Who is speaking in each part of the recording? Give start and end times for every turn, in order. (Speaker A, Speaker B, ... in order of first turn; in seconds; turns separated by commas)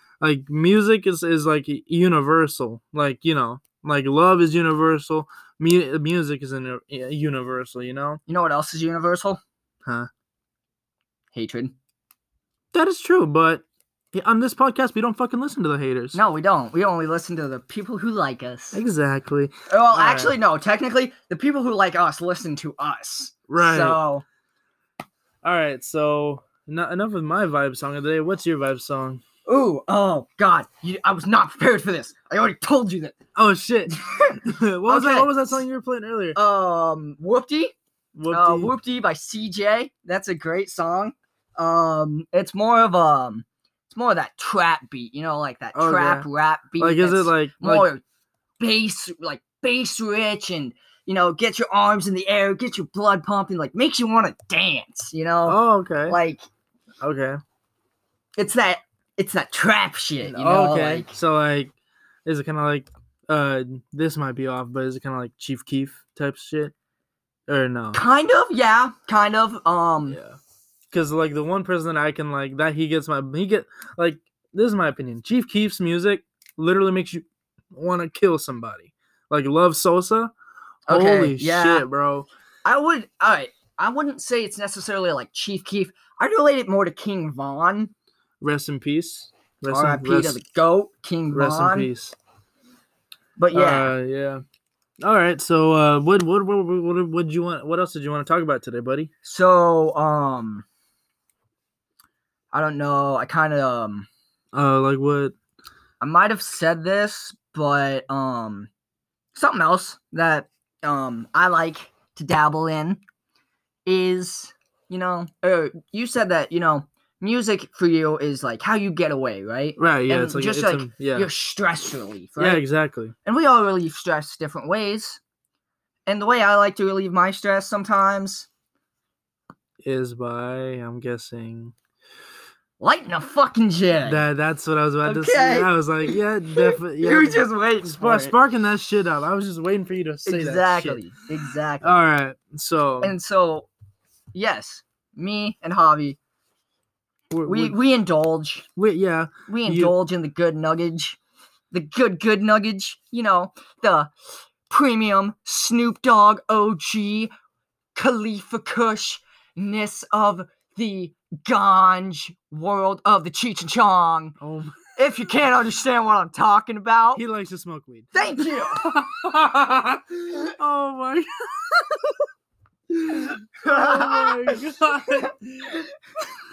Speaker A: 0.2-8.2, Speaker B: 8.3-9.4, Speaker B: 11.3-11.7, Speaker A: 12.7-16.2, Speaker B: 16.1-18.8, Speaker A: 18.7-20.3, Speaker B: 19.7-24.2, Speaker A: 23.5-24.0, Speaker A: 25.4-29.2, Speaker B: 29.4-33.2, Speaker A: 33.3-36.4, Speaker B: 33.9-35.6, Speaker B: 36.3-37.7, Speaker A: 38.1-38.7, Speaker B: 38.3-48.0, Speaker A: 45.7-46.3, Speaker A: 46.8-47.9, Speaker B: 48.6-56.4, Speaker A: 55.5-56.2, Speaker A: 57.0-57.4, Speaker B: 58.4-61.1, Speaker A: 60.2-61.7, Speaker A: 62.2-66.7, Speaker A: 67.5-68.0, Speaker B: 67.9-70.2, Speaker A: 70.1-70.4, Speaker A: 70.9-80.3, Speaker B: 80.9-81.8, Speaker A: 80.9-82.3, Speaker B: 82.6-87.9, Speaker A: 88.4-90.4, Speaker B: 89.7-91.9, Speaker A: 91.3-92.1, Speaker B: 93.4-93.9, Speaker A: 93.5-94.4, Speaker A: 95.0-99.1, Speaker B: 99.2-100.6, Speaker B: 102.5-104.1, Speaker A: 104.5-105.3, Speaker B: 106.0-108.7, Speaker B: 109.3-113.0, Speaker B: 113.8-122.6, Speaker A: 119.8-121.3, Speaker A: 122.4-123.1, Speaker B: 123.2-125.2, Speaker B: 126.1-128.5, Speaker A: 129.8-131.7, Speaker B: 132.8-134.2, Speaker A: 134.1-141.0, Speaker B: 135.0-138.3, Speaker B: 140.2-141.9, Speaker A: 141.8-143.1, Speaker B: 143.0-143.7, Speaker B: 144.3-146.2, Speaker A: 147.3-147.8, Speaker B: 147.4-148.7, Speaker A: 148.8-149.9, Speaker B: 149.5-151.2, Speaker B: 151.7-154.1, Speaker B: 154.7-157.3, Speaker B: 157.9-164.4, Speaker A: 164.4-164.9, Speaker B: 164.9-167.2, Speaker A: 167.2-172.2, Speaker B: 168.1-168.9, Speaker A: 172.9-175.8, Speaker B: 173.6-175.3